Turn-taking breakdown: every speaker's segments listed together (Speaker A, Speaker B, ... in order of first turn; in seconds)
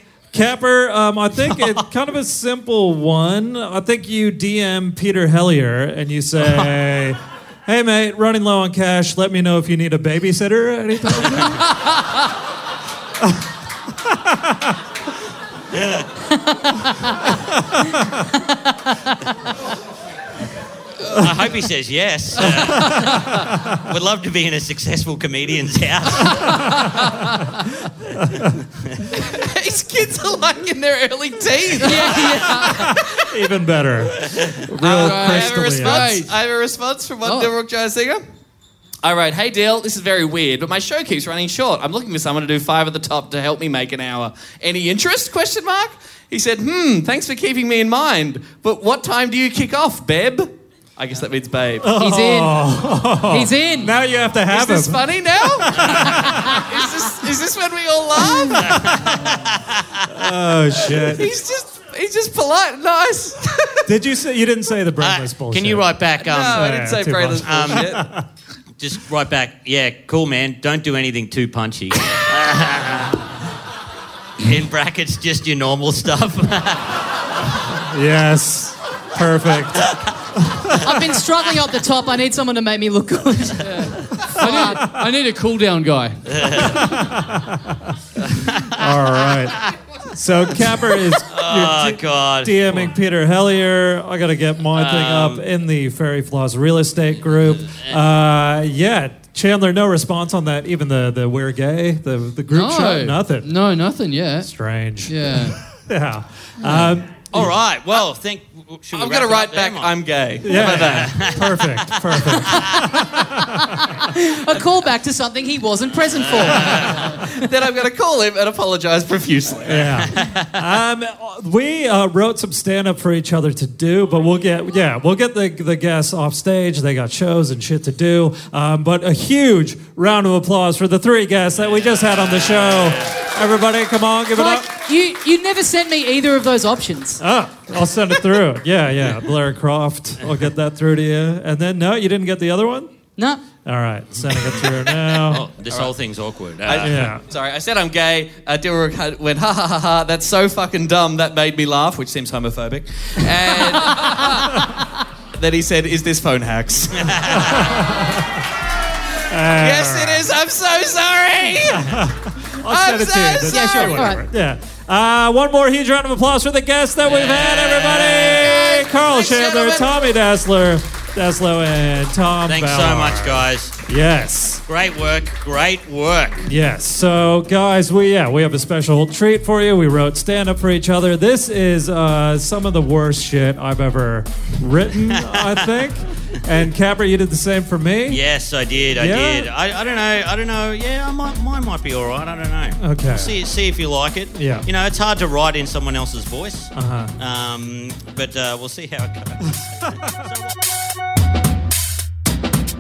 Speaker A: 0.3-11.8, 14.0-14.7, 17.4-18.1, 22.4-23.8, 28.2-28.5, 32.6-36.1, 51.8-56.5, 58.6-59.3, 60.0-61.3, 63.8-66.0, 66.5-68.2, 77.7-81.0, 84.5-85.0, 86.5-87.9, 88.7-103.5, 104.4-107.4, 110.4-114.0, 119.6-134.7, 137.2-142.9, 143.6-145.5, 146.7-147.2, 154.5-154.8, 157.3-158.4, 159.3-160.2, 161.6-174.6, 176.4-188.2, 188.9-189.5, 192.8-193.3, 194.3-194.7, 196.7-197.1
Speaker B: 15.7-16.1, 21.1-26.9, 58.5-60.2, 65.0-66.7, 67.4-68.0, 68.8-73.3, 74.4-77.5, 86.3-87.1, 88.2-89.7, 91.2-92.9, 94.7-95.4, 97.7-98.0, 106.7-109.9, 110.5-112.9, 116.2-117.2, 120.1-120.6, 132.3-133.1, 145.2-147.0, 156.9-157.8, 167.0-168.5, 172.4-173.8, 174.7-176.4, 185.2-185.6, 188.1-200.5
Speaker C: 29.1-33.3, 34.2-38.2, 39.0-51.9, 54.5-59.0, 60.9-63.9, 66.2-68.1, 108.9-111.3, 116.9-120.0, 146.6-154.7, 155.3-157.3, 159.6-162.0, 162.6-164.0, 168.7-169.8
Speaker D: 31.8-32.7, 52.0-53.9, 80.7-84.8, 112.8-117.4, 134.3-137.2, 143.2-143.4, 163.5-164.2
Speaker E: 32.0-32.8, 34.9-36.4, 37.2-37.5, 83.6-86.7, 102.5-104.5, 105.0-105.6